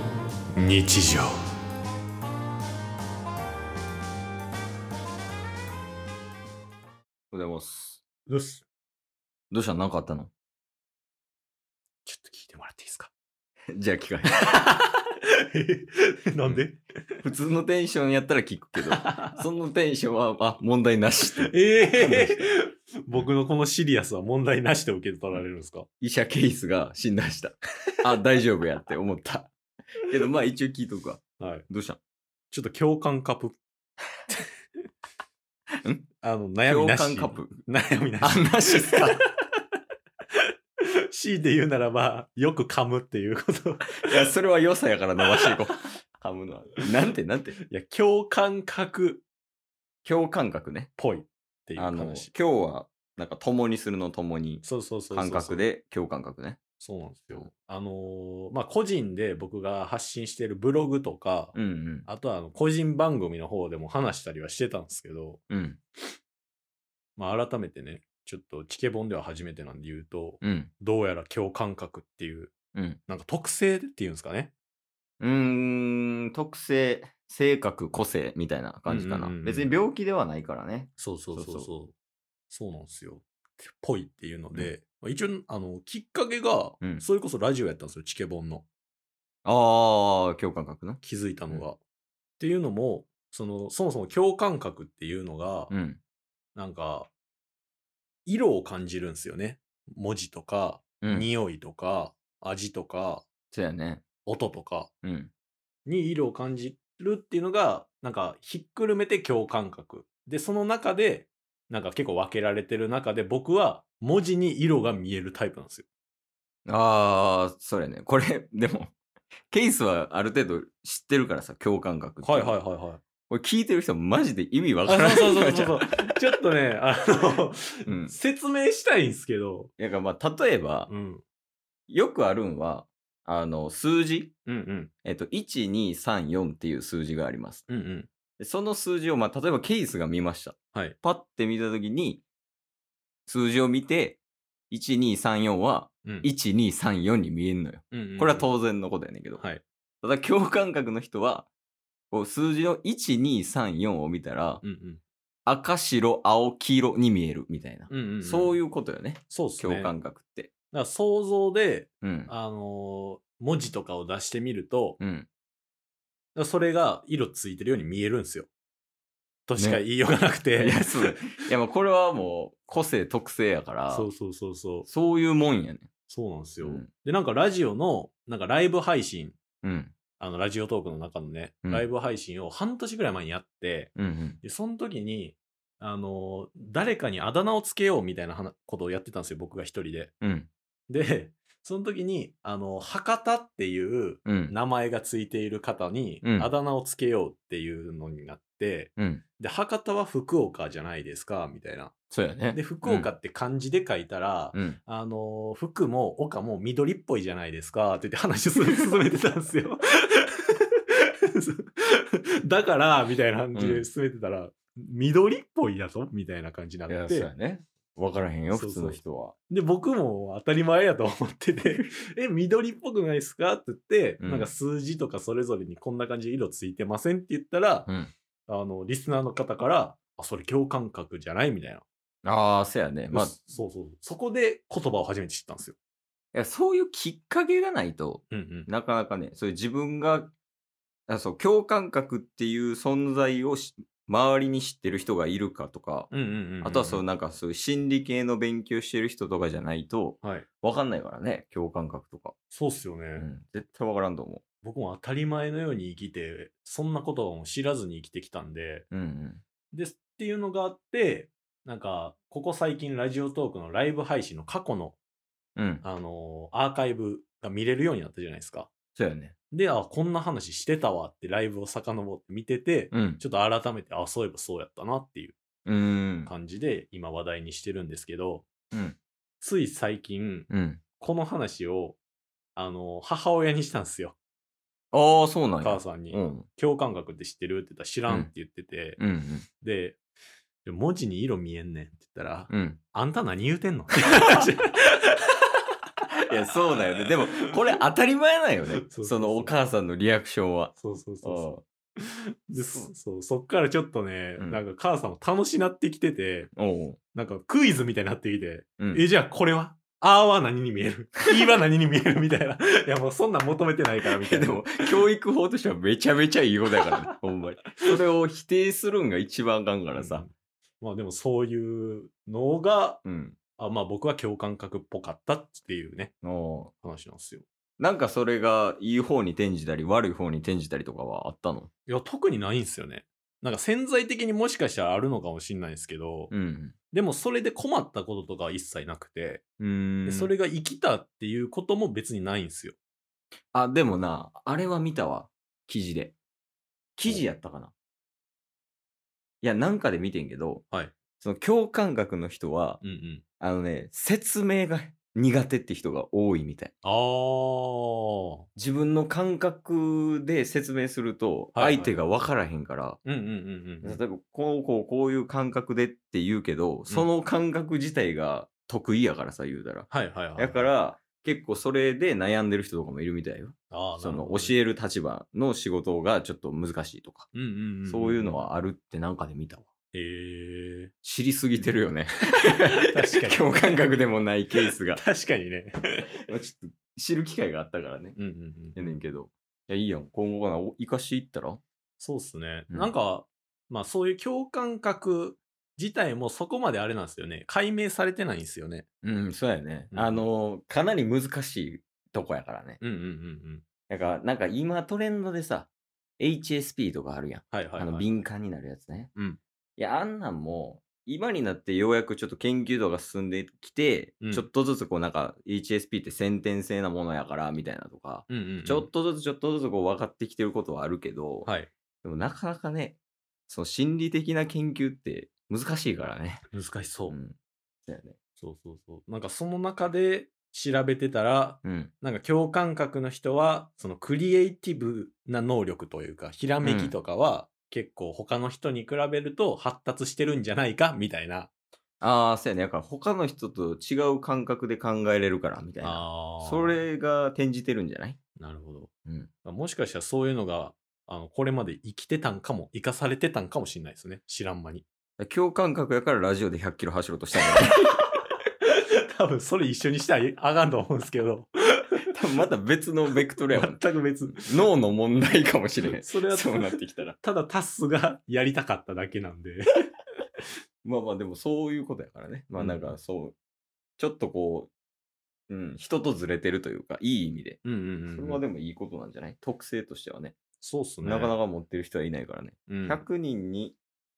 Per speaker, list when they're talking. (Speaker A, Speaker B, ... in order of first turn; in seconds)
Speaker A: 0.6-1.3, 8.3-8.6, 12.0-13.1, 14.3-16.8, 18.8-19.4, 21.4-25.9, 31.4-31.6, 32.5-33.6, 36.2-39.2, 41.1-44.1, 47.7-49.2, 51.0-52.3, 54.6-55.6, 56.8-61.5, 62.0-65.4, 67.2-72.5, 73.1-74.5, 78.9-79.7, 81.0-81.9, 82.5-88.7, 91.0-91.8, 92.4-95.7, 96.5-97.1, 98.2-103.2, 104.2-104.9, 105.8-115.8, 122.2-123.0, 124.8-129.7, 130.9-131.2, 134.4-134.9, 137.7-138.1, 146.0-146.3, 147.9-148.5, 149.4-149.6, 154.6-155.0, 157.9-158.6, 159.3-159.9, 160.7-165.0, 166.3-168.5, 169.5-171.2, 173.9-174.9, 176.1-179.4, 180.2-183.9, 184.4-190.1, 190.9-201.9, 202.5-210.6, 211.3-217.3, 218.5-227.9, 228.5-231.8, 233.1-235.8, 238.3-238.7, 246.1-247.0, 250.2-250.5, 252.5-253.3, 254.6-258.9, 259.7-265.0, 265.8-268.7, 269.5-275.4, 276.2-278.5, 279.4-280.5, 281.0-282.0, 282.6-284.2, 285.6-289.0, 289.6-290.0, 290.6-295.5, 298.8-299.5, 300.8-306.5, 307.1-314.9, 319.9-323.0, 323.6-326.1, 326.8-327.4, 331.9-336.3, 336.9-339.4, 340.0-342.7, 350.7-350.9, 352.8-353.2, 356.8-358.4, 361.5-362.0, 363.0-364.0, 369.9-370.7, 373.7-374.6, 377.3-378.4, 379.9-380.9, 382.9-383.8, 384.6-385.7, 388.1-388.8, 392.0-398.9, 399.9-400.2, 402.8-403.6, 407.5-408.1, 409.1-409.4, 414.2-414.5, 418.3-418.9, 421.4-421.7, 426.5-427.2, 428.4-441.5, 445.8-446.8, 448.4-448.9, 449.4-454.9, 458.6-461.5, 463.5-464.5, 466.0-469.8, 472.6-472.9, 477.6-478.4, 480.6-481.3, 482.7-483.0
Speaker B: 7.3-8.0, 9.5-10.3, 13.7-14.4, 17.2-22.5, 26.0-29.5, 30.0-32.0, 36.6-37.6, 38.2-39.2, 44.0-47.6, 50.0-50.9, 51.8-56.6, 61.5-62.1, 65.5-65.8, 70.4-70.7, 72.7-73.0, 75.2-81.7, 89.4-91.6, 95.7-96.0, 101.0-101.3, 103.5-104.0, 105.0-105.3, 116.7-119.0, 119.5-122.6, 123.3-126.2, 127.8-128.1, 129.8-130.9, 131.9-134.3, 135.0-137.6, 138.4-142.2, 143.3-149.4, 150.0-151.5, 152.1-154.6, 155.4-160.5, 162.0-162.3, 165.0-165.3, 170.6-174.1, 174.8-175.9, 176.6-176.9, 179.6-179.9, 183.9-184.4, 190.2-190.5, 194.2-194.5, 196.2-196.5, 199.0-199.2, 202.1-203.1, 204.5-204.8, 213.5-213.9, 216.9-219.3, 224.2-224.5, 227.9-228.1, 232.2-233.3, 236.3-240.3, 241.1-252.3, 253.2-254.4, 258.9-259.4, 265.6-265.8, 268.9-269.3, 272.9-273.2, 275.6-276.3, 278.7-279.0, 280.5-280.8, 284.9-286.5, 289.0-289.4, 292.5-292.8, 296.3-301.6, 302.5-302.9, 306.6-307.0, 308.8-309.0, 314.0-320.2, 323.0-323.4, 326.2-326.7, 327.8-331.7, 336.3-336.7, 339.6-340.3, 343.5-346.1, 347.0-347.7, 349.4-350.6, 351.2-352.8, 353.4-356.7, 358.6-363.0, 363.8-377.3, 377.9-379.7, 381.0-385.0, 386.3-388.2, 388.8-391.6, 399.0-402.8, 403.9-409.1, 409.8-421.5, 422.0-426.4, 427.1-428.1, 431.6-431.9, 436.6-436.9, 442.0-448.2, 455.2-458.0, 462.1-463.8, 464.3-467.2, 470.8-473.4, 474.0-474.7, 475.5-477.6, 478.1-480.4, 481.0-483.8